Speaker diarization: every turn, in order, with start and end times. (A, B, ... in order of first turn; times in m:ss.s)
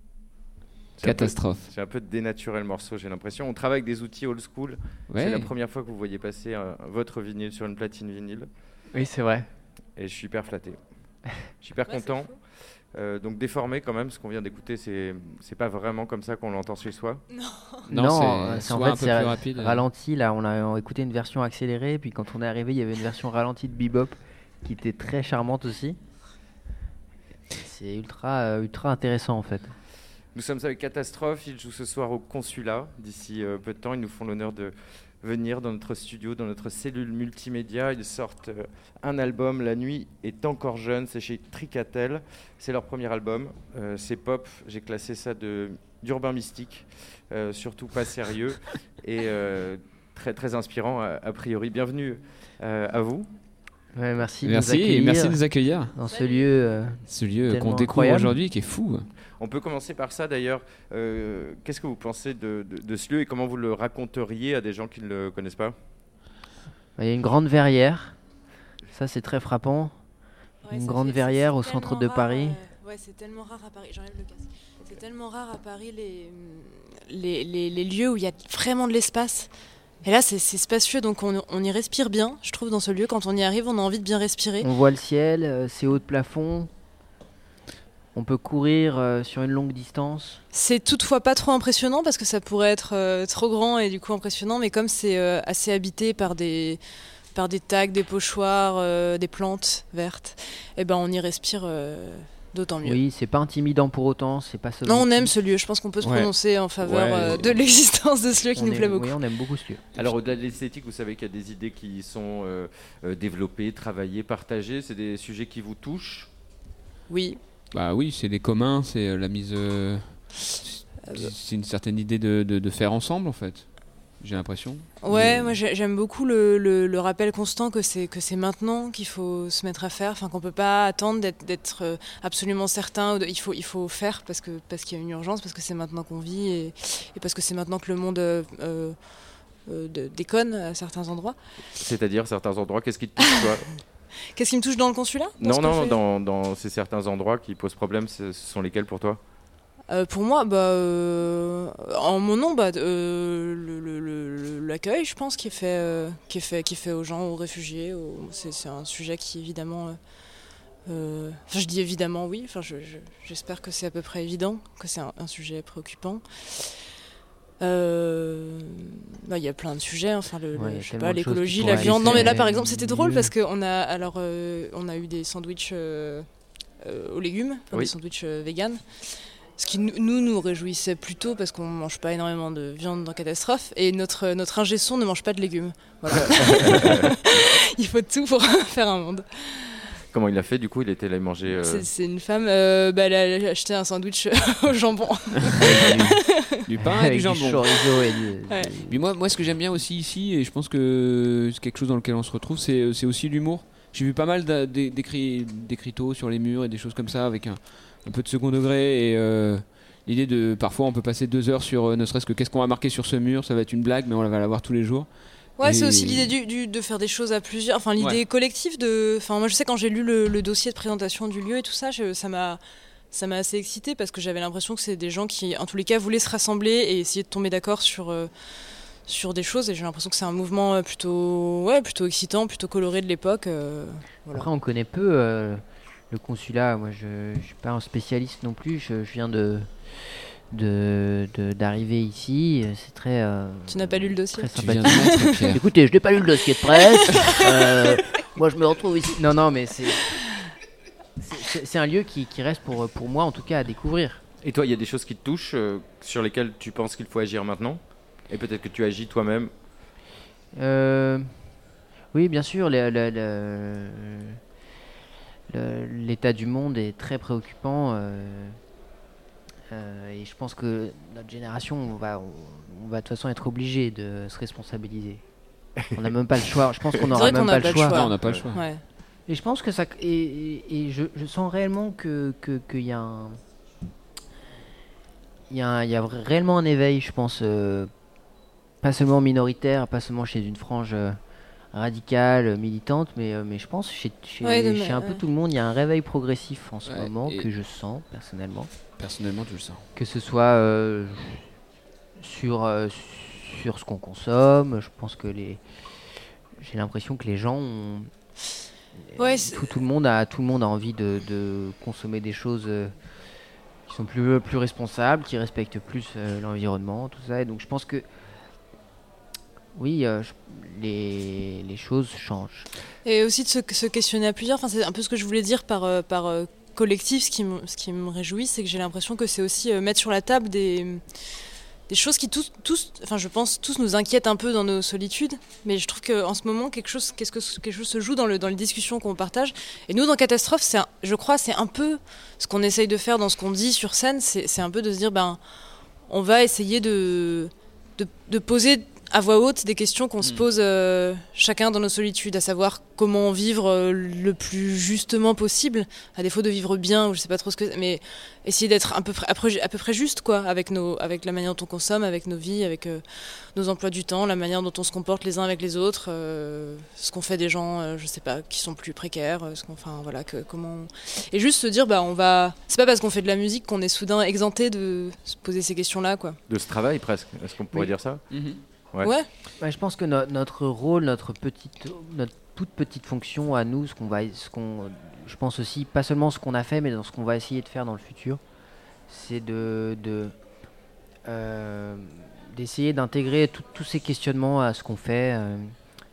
0:01.0-0:08.5 A
0:01.0-0:01.7 B
0:05.1-0:05.5 B
0:08.9-0:09.5 C
0:10.0-0:10.8 A
0:11.6-0:12.3 A
0:11.9-0:12.4 D
0:12.9-0:17.2 A
0:17.3-0:17.9 D
0:17.9-0:26.0 C
0:17.9-0:19.8 B
0:27.5-0:29.8 C
0:30.4-0:53.3 A
0:53.9-0:55.4 C
0:54.5-0:55.9 B
0:55.9-0:58.4 C
0:57.1-0:59.1 B
0:59.4-1:05.8 A
1:07.0-1:08.2 C
1:08.9-1:10.0 C
1:10.6-1:19.5 D
1:10.7-1:12.6 C
1:20.0-1:24.7 D
1:24.6-1:26.7 C
1:28.1-1:30.4 C
1:30.5-1:36.8 D
1:37.3-1:43.0 D
1:42.8-1:45.3 C
1:44.8-1:49.2 D
1:47.1-1:47.5 A
1:48.6-1:49.9 C
1:50.0-1:56.3 A
1:57.1-1:57.4 D
1:57.7-2:05.6 B
2:01.0-2:01.3 D
2:05.0-2:19.0 D
2:19.6-2:21.4 D
2:21.8-2:23.7 A
2:24.3-2:26.0 D
2:25.4-2:29.2 A
2:29.9-2:40.0 D
2:40.9-2:46.8 D
2:47.6-2:56.3 D
2:50.6-2:53.3 C
2:56.8-3:09.9 D
3:10.1-3:11.9 A
3:11.6-3:16.2 D
3:15.6-3:17.6 B
3:16.8-3:19.0 C
3:18.5-3:18.7 D
3:18.9-3:36.3 B
3:35.6-3:42.6 D
3:43.1-3:48.3 D
3:49.1-3:54.5 D
3:54.3-4:10.2 C
4:03.7-4:05.4 D
4:04.6-4:05.6 B
4:11.2-4:14.2 C
4:14.4-4:19.5 A
4:20.6-4:21.5 C
4:22.1-4:24.4 C
4:25.5-4:28.6 C
4:29.7-4:35.2 C
4:35.9-4:38.1 C
4:37.1-4:38.8 D
4:38.0-4:38.6 B
4:38.2-4:38.5 A
4:39.3-4:43.4 C
4:45.5-4:47.9 C
4:48.8-4:51.2 C
4:51.7-4:58.7 C
4:54.4-4:55.2 D
4:56.9-4:57.5 B
4:59.0-4:59.8 B
5:00.0-5:01.5 C
5:02.2-5:05.6 C
5:06.6-5:08.1 C
5:09.0-5:13.0 C
5:09.2-5:09.7 D
5:13.9-5:18.1 C
5:19.8-5:22.7 C
5:23.0-5:31.0 D
5:31.9-5:45.4 D
5:46.1-6:16.4 D
6:16.5-6:18.2 A
6:18.3-6:18.6 B
6:19.6-6:28.4 C
6:29.1-6:30.4 C
6:31.3-6:35.8 C